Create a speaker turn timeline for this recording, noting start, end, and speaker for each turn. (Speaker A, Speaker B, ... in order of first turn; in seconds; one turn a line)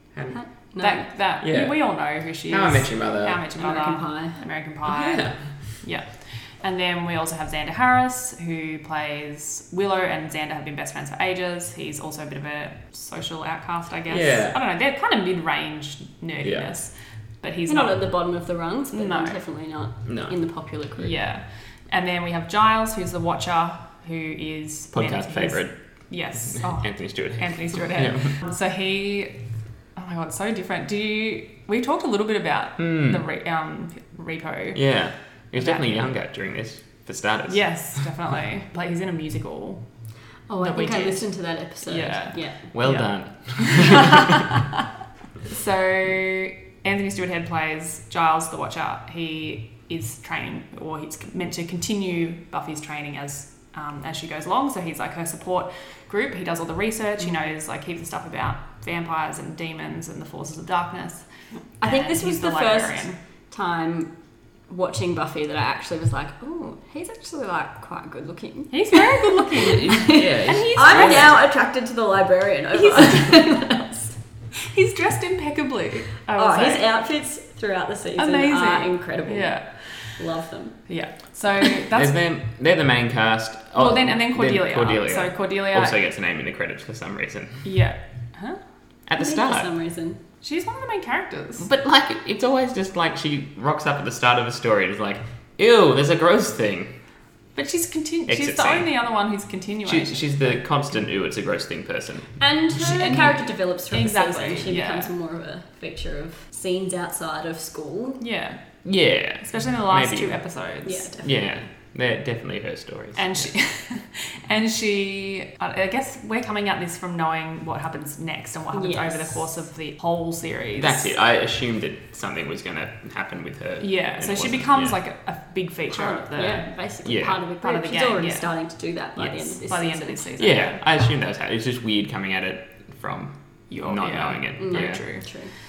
Speaker A: 0.3-1.1
Speaker B: 0.8-18.0
Speaker C: 1.4-1.9
Speaker C: 2.5-3.4
Speaker A: 3.6-4.4
Speaker C: 4.8-5.4
Speaker C: 14.1-14.6
Speaker C: 16.4-16.7
Speaker A: 17.7-21.2
Speaker B: 18.9-19.4
Speaker C: 20.1-20.3
Speaker B: 21.0-29.4
Speaker C: 24.9-25.7
Speaker C: 26.5-28.3
Speaker B: 29.9-34.9
Speaker C: 32.8-33.2
Speaker C: 34.7-38.0
Speaker B: 35.6-36.1
Speaker B: 37.5-39.9
Speaker A: 40.5-42.6
Speaker B: 40.6-44.6
Speaker C: 42.7-44.4
Speaker B: 45.5-61.3
Speaker B: 61.8-63.1
Speaker A: 61.8-64.1
Speaker A: 64.7-73.9
Speaker B: 68.7-71.4
Speaker C: 69.7-71.4
Speaker B: 72.7-76.9
Speaker A: 76.4-81.0
Speaker B: 78.2-80.2
Speaker B: 80.9-82.1
Speaker C: 81.9-87.7
Speaker B: 83.8-86.0
Speaker B: 87.6-88.6
Speaker C: 89.1-89.7
Speaker A: 89.2-90.2
Speaker B: 90.4-91.7
Speaker C: 91.6-97.0
Speaker B: 97.5-100.6
Speaker C: 98.3-98.9
Speaker C: 99.9-103.4
Speaker A: 102.4-108.2
Speaker B: 103.9-105.1
Speaker B: 108.2-108.6
Speaker C: 108.8-110.4
Speaker B: 109.4-111.1
Speaker A: 110.8-111.6
Speaker C: 111.2-113.5
Speaker B: 113.2-121.1
Speaker A: 118.7-119.5
Speaker C: 120.8-125.0
Speaker B: 123.8-126.7
Speaker A: 125.9-130.3
Speaker C: 127.0-127.4
Speaker B: 127.6-128.5
Speaker B: 129.2-130.8
Speaker C: 130.4-135.0
Speaker B: 133.7-135.4
Speaker A: 134.6-135.5